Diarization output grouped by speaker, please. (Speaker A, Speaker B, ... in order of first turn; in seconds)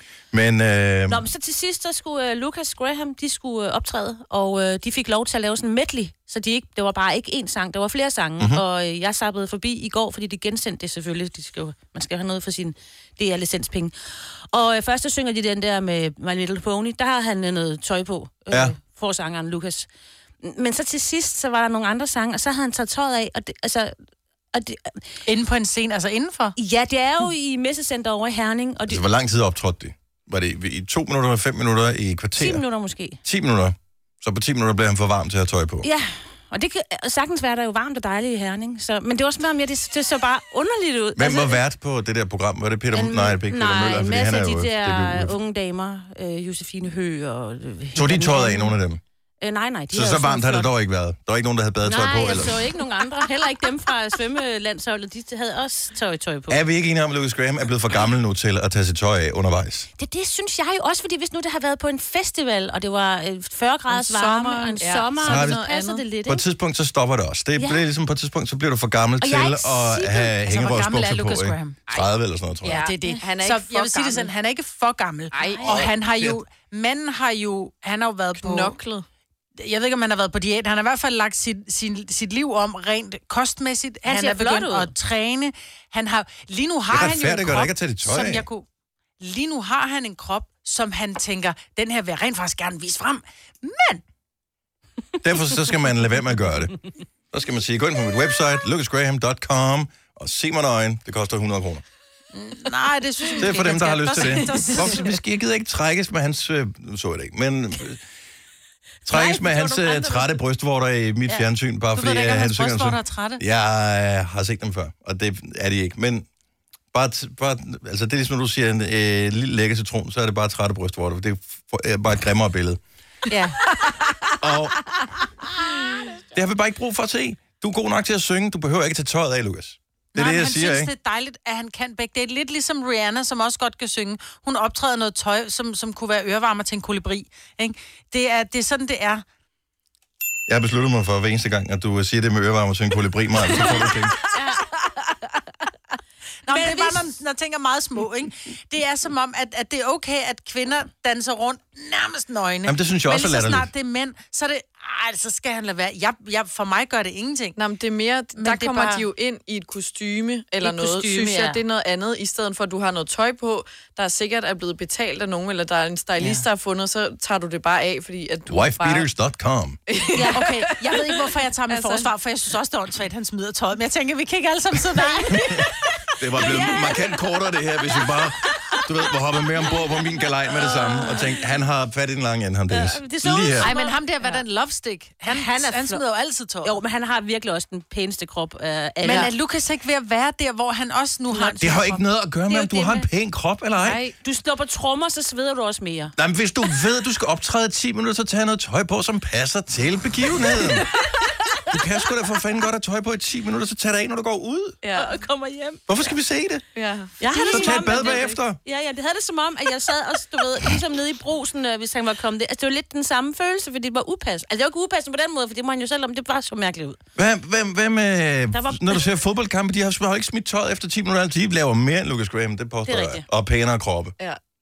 Speaker A: 0.3-1.2, 8.4-8.6, 18.5-18.8, 28.9-32.6, 33.2-35.9, 41.1-45.4, 47.9-49.0, 49.9-52.7, 56.5-59.9, 65.2-65.6, 66.2-72.8, 75.7-76.4, 86.9-88.5, 95.2-96.8, 97.3-101.8, 103.3-108.0, 109.0-116.2, 116.9-122.8, 124.4-124.9, 126.3-130.9, 140.5-144.2, 152.6-153.7, 168.5-169.8, 176.2-183.7, 191.6-194.0, 196.2-200.9, 201.7-204.8, 205.9-206.7, 207.5-208.6, 217.2-224.1
Speaker B: 1.1-19.9, 20.4-23.9, 24.5-25.0, 26.6-29.0, 32.4-33.2, 35.8-41.6, 42.9-48.8, 49.4-50.7, 51.8-56.6, 60.0-66.4, 67.6-67.8, 75.4-75.8, 84.0-84.9, 144.3-144.7, 146.5-147.1, 160.6-161.6, 170.1-170.4, 176.4-177.0, 180.5-181.4, 182.7-184.4, 185.3-186.0, 186.6-189.3, 191.3-193.1, 193.8-196.1, 201.1-201.7, 204.9-206.1, 207.2-217.0, 218.5-219.0, 222.8-223.2
Speaker C: 25.2-26.5, 69.2-71.8, 72.6-78.8, 79.6-88.7, 89.2-94.0, 102.3-105.2, 109.1-110.4, 111.9-113.4, 123.3-123.7, 130.1-139.2, 146.4-157.6, 158.4-159.0, 170.3-176.1, 183.6-186.8, 189.0-191.8
Speaker D: 63.9-66.0, 72.6-74.3, 75.3-75.9, 78.4-79.0, 157.6-169.1, 169.9-172.1, 204.8-205.1, 206.7-208.3